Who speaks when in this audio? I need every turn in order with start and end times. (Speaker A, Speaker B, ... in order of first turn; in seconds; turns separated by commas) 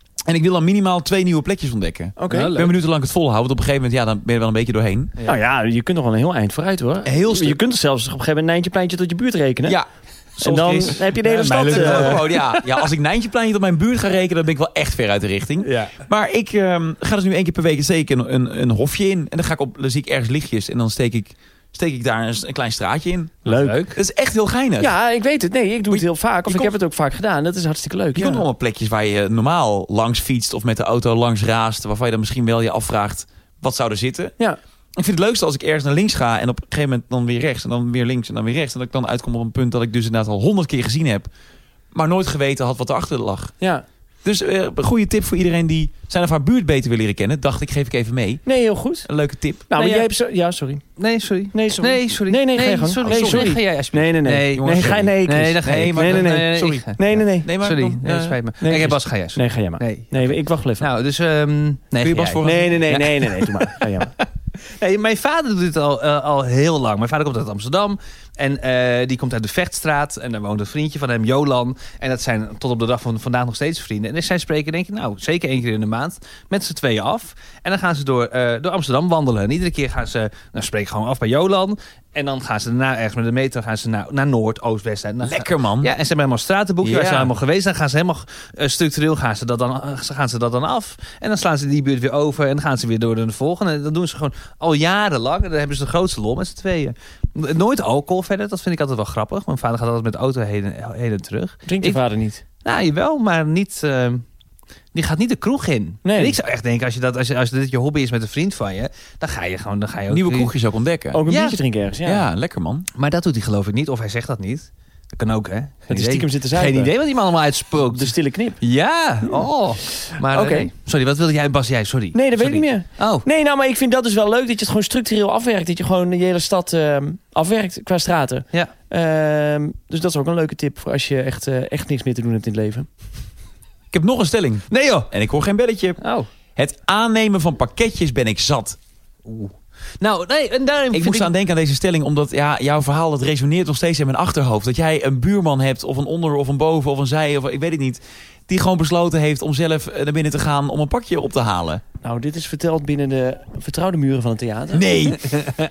Speaker A: 0.3-5.1, Speaker B: 2.2-2.5, Speaker C: 2.3-2.7, Speaker B: 5.2-9.8, Speaker A: 7.0-7.6, Speaker A: 10.4-24.9, Speaker B: 10.4-12.2, Speaker C: 11.2-12.8, Speaker C: 15.6-15.9, Speaker B: 23.4-23.8, Speaker C: 23.5-24.0, Speaker B: 24.8-28.4, Speaker A: 25.9-26.8, Speaker A: 28.1-34.4, Speaker A: 35.0-41.3, Speaker A: 41.9-43.5, Speaker A: 44.2-48.5, Speaker B: 48.5-49.1, Speaker A: 49.0-49.7, Speaker B: 49.7-50.8, Speaker C: 49.8-50.1, Speaker C: 51.0-102.0, Speaker B: 51.5-57.5, Speaker A: 53.0-53.5, Speaker A: 54.5-58.4, Speaker B: 58.6-60.9, Speaker A: 62.0-63.1, Speaker B: 62.4-64.1, Speaker A: 85.2-85.9, Speaker A: 86.8-87.3, Speaker B: 101.7-102.4, Speaker C: 102.6-104.2, Speaker C: 104.9-110.5, Speaker B: 106.0-106.4, Speaker A: 110.1-111.2, Speaker B: 111.1-112.3, Speaker C: 111.3-111.6, Speaker A: 112.0-112.9, Speaker C: 113.0-123.2, Speaker B: 115.9-116.9, Speaker B: 117.9-118.6, Speaker B: 120.1-120.7, Speaker B: 122.1-132.9, Speaker A: 133.9-136.0, Speaker C: 134.7-135.1, Speaker C: 136.0-136.3, Speaker A: 136.6-138.8, Speaker C: 139.2-141.3, Speaker A: 140.9-151.8, Speaker B: 152.0-155.2, Speaker A: 154.7-155.4